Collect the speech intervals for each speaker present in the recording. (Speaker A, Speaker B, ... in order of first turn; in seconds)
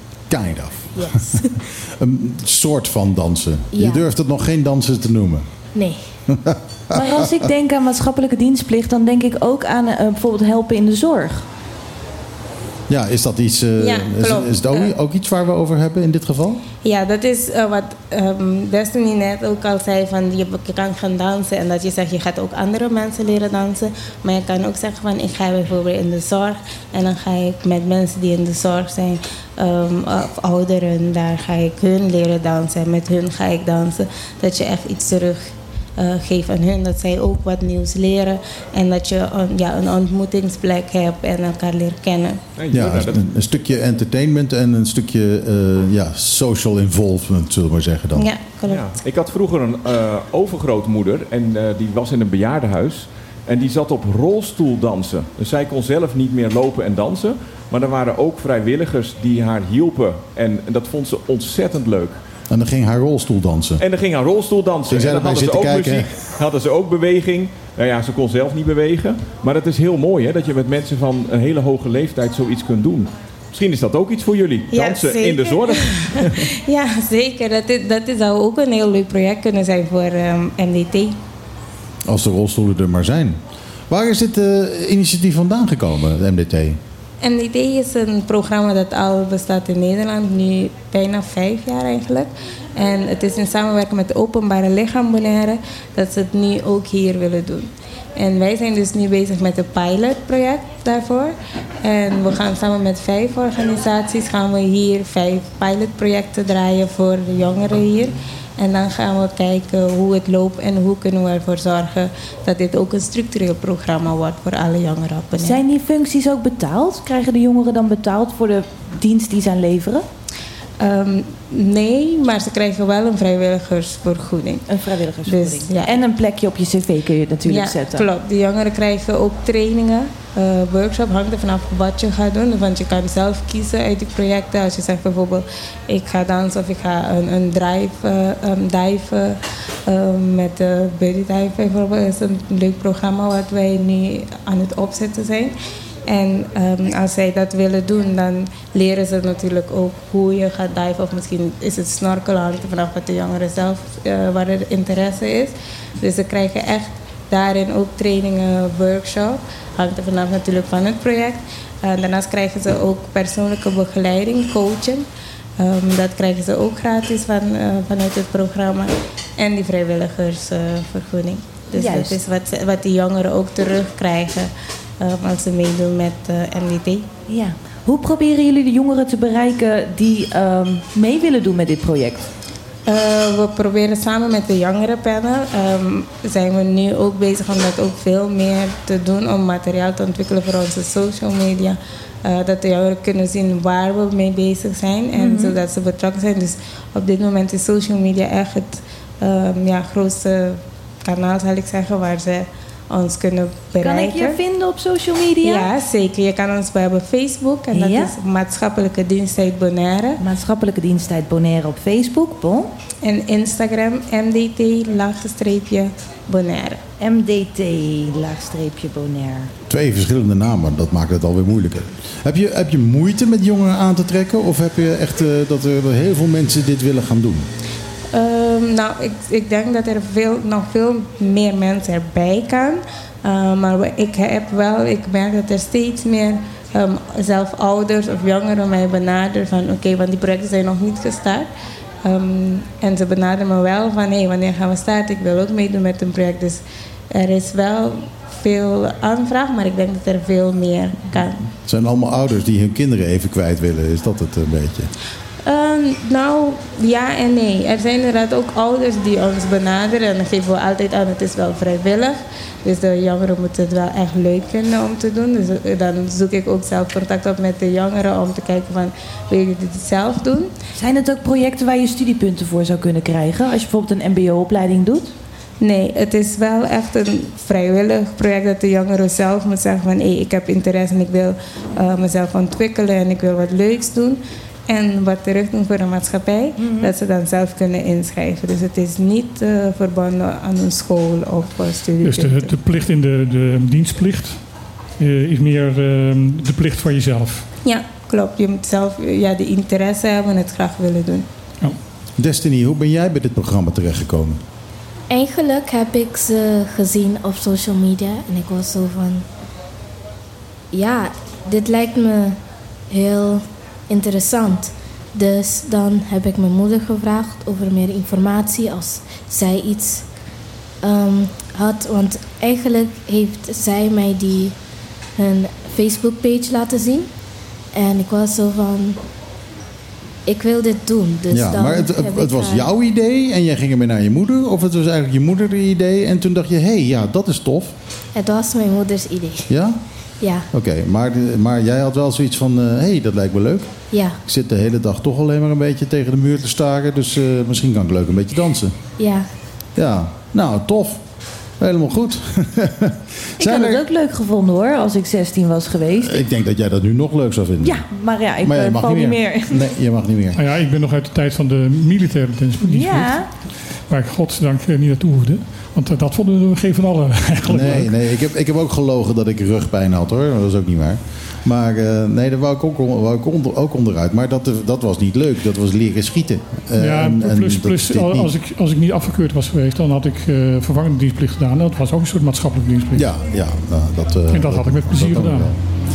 Speaker A: 0.3-5.4, 6.3-7.4, 12.9-16.6, 42.7-48.3, 62.5-63.8, 64.9-66.1, 82.1-83.4, 83.9-86.8, 219.7-227.5, 251.6-254.9, 302.2-304.4, 331.3-337.7, 339.5-339.8, 340.5-343.7, 344.3-348.8, 349.8-351.0, 351.6-353.8, 356.0-357.8, 358.4-360.4, 367.5-378.3, 382.9-385.6
Speaker B: 0.9-1.5, 3.7-4.0, 5.7-6.0, 305.1-309.2, 310.7-312.4, 312.9-320.1, 320.8-324.5, 325.2-327.1, 327.7-329.0, 330.2-332.7, 338.1-339.5, 340.2-340.4, 343.9-344.2, 349.0-349.3
Speaker C: 6.9-11.4, 115.4-120.0, 124.7-128.1, 171.8-172.2, 177.3-182.3, 195.2-195.6, 203.8-205.7, 207.7-208.1, 210.2-212.7, 217.0-219.5, 270.7-275.1, 286.6-286.9, 353.4-356.2, 357.6-359.7, 362.6-363.2
Speaker D: 13.8-14.9, 16.8-42.4, 48.1-48.9, 74.7-81.2, 87.2-115.6, 120.8-124.6, 125.2-126.0, 127.4-145.5, 146.1-165.1, 165.6-177.1, 182.8-204.4, 205.4-210.2, 213.0-216.8, 228.1-241.5, 242.0-251.5, 255.4-270.5, 275.6-292.5, 297.6-301.3
Speaker E: 42.6-43.2, 48.7-62.1, 63.8-76.5
Speaker F: 292.0-294.4, 295.0-297.5, 360.4-367.9, 376.8-383.1, 384.3-385.5